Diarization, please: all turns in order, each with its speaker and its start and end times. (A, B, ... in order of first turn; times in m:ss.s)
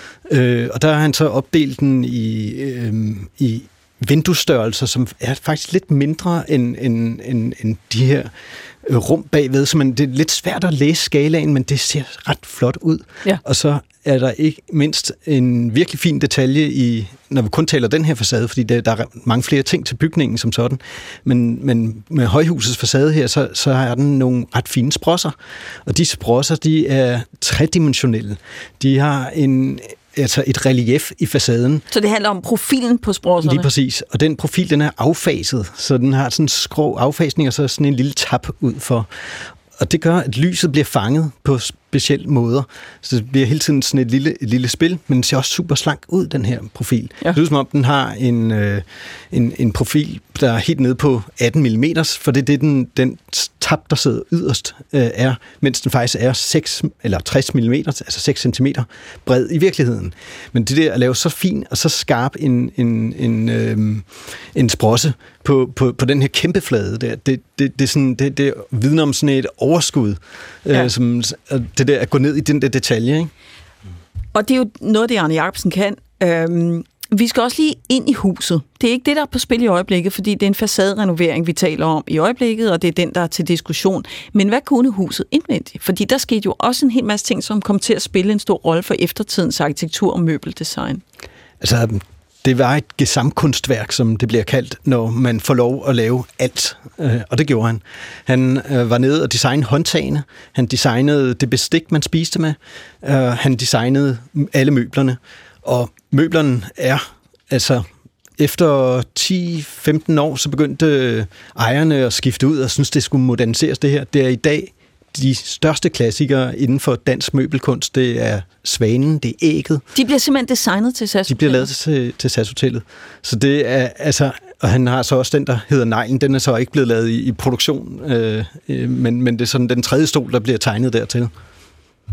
0:00.2-0:31.8 A
0:31.9-0:33.7 B
0:33.4-1:13.3 A
1:14.3-1:31.0 B
1:31.6-1:59.8 A
1:59.9-2:01.7 B
2:01.3-2:11.3 A